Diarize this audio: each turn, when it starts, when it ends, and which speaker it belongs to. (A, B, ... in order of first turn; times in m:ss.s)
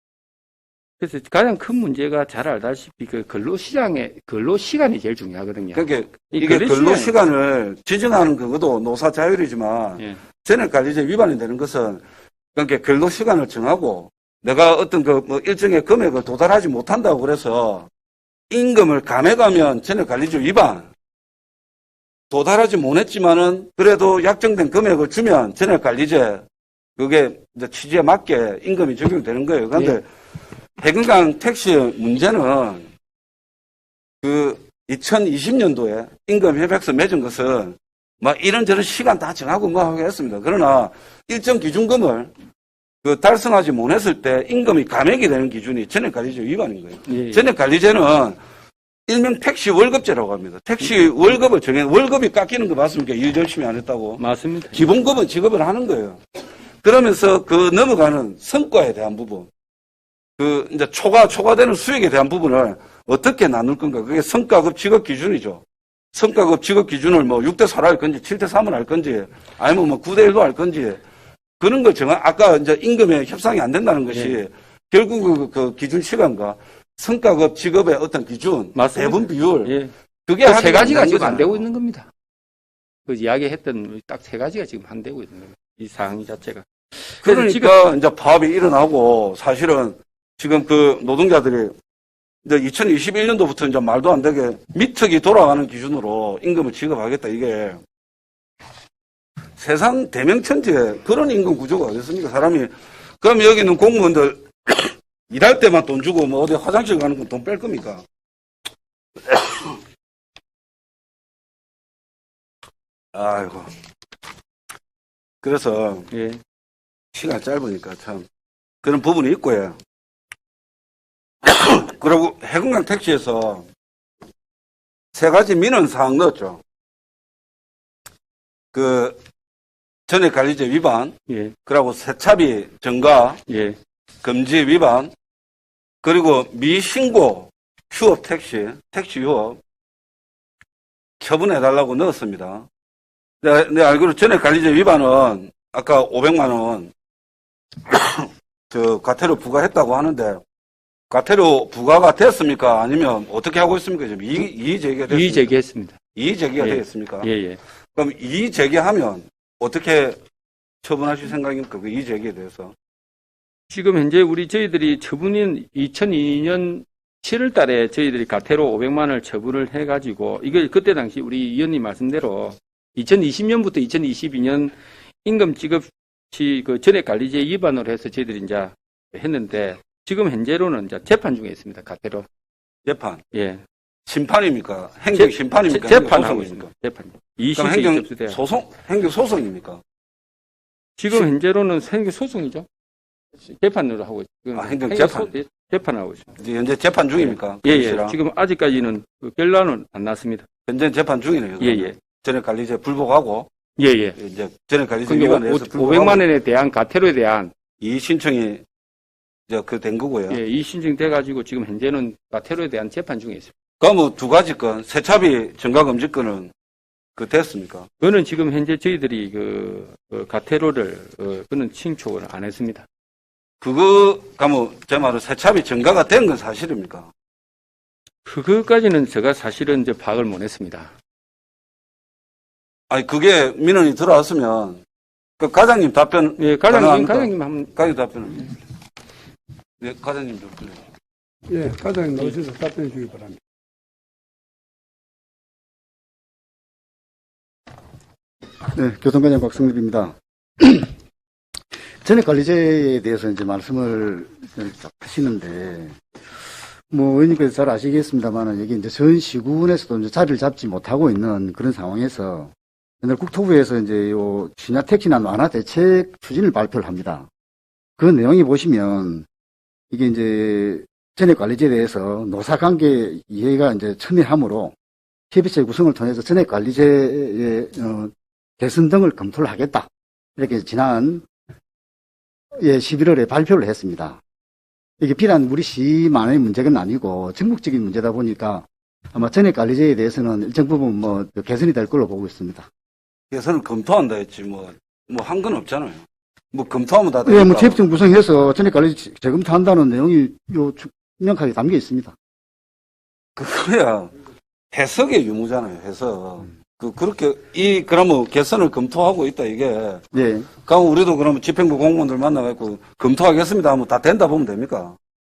0:01.0-0:07.1 A
0:05.8-0:12.0 B
0:12.6-0:17.9 B
0:18.5-0:20.9 B
0:22.3-0:26.4 B
0:27.0-0:30.0 B
0:30.8-0:32.9 B
0:34.2-0:42.3 B
0:43.0-0:48.4 B
0:47.1-0:47.4 A
0:49.1-0:54.2 B
0:54.2-0:54.8 A
0:54.7-0:56.2 B
0:56.8-0:59.5 B
1:00.4-1:11.0 B
1:11.6-1:19.8 B
1:14.1-1:14.4 A
1:18.8-1:19.9 A
1:20.3-1:21.6 B
1:20.4-1:22.1 A
1:23.1-1:27.7 A
1:27.2-1:31.7 B
1:32.4-1:37.8 B
1:39.6-1:42.7 B
1:43.2-1:48.0 B
1:49.2-1:49.8 B
1:53.1-1:53.7 B
1:55.4-1:56.1 B
1:56.1-1:56.4 A
1:57.1-1:58.2 B
1:58.8-1:59.8 B
2:01.4-2:03.7 B
2:05.1-2:06.6 B
2:08.7-2:09.2 B
2:10.1-2:13.4 B
2:11.3-2:11.6 A
2:13.5-2:13.8 A
2:14.2-2:15.1 B
2:16.0-2:19.6 B
2:21.2-2:22.7 B
2:23.4-2:26.9 B
2:27.9-2:30.4 B
2:31.1-2:35.5 B
2:35.1-2:36.0 A
2:36.2-2:37.3 B
2:36.6-2:37.6 A
2:38.0-2:40.2 B
2:40.8-2:42.7 B
2:43.7-3:02.3 A
3:02.9-3:03.2 B
3:03.3-3:03.6 A
3:04.1-3:06.6 B
3:05.1-3:08.4 A
3:07.6-3:09.8 B
3:11.0-3:12.7 A
3:13.5-3:16.3 A
3:14.6-3:15.3 B
3:16.4-3:18.2 B
3:17.6-3:20.5 A
3:20.7-3:23.5 B
3:21.6-3:22.0 A
3:23.8-3:24.2 A
3:24.2-3:26.2 B
3:25.1-3:27.5 A
3:27.8-3:28.6 B
3:29.5-3:30.4 B
3:30.3-3:33.5 A
3:33.8-3:36.5 B
3:37.2-3:37.9 B
3:38.0-3:42.9 A
3:43.6-3:47.1 B
3:48.2-3:50.9 A
3:52.9-3:54.8 B
3:55.4-3:58.5 B
3:56.4-3:57.7 A
3:59.8-4:00.8 B
4:01.5-4:03.4 C
4:08.7-4:10.9 D
4:12.0-4:16.0 D
4:16.9-4:27.3 D
4:28.0-4:29.3 D
4:29.9-4:34.8 D
4:35.3-4:41.2 D
4:42.6-4:44.2 D
4:45.0-4:52.7 D
4:53.3-4:56.0 B
4:56.5-4:57.8 B
4:57.2-5:02.2 D
5:03.4-5:04.1 B
5:04.7-5:10.0 B
5:10.1-5:10.5 D
5:10.6-5:15.0 B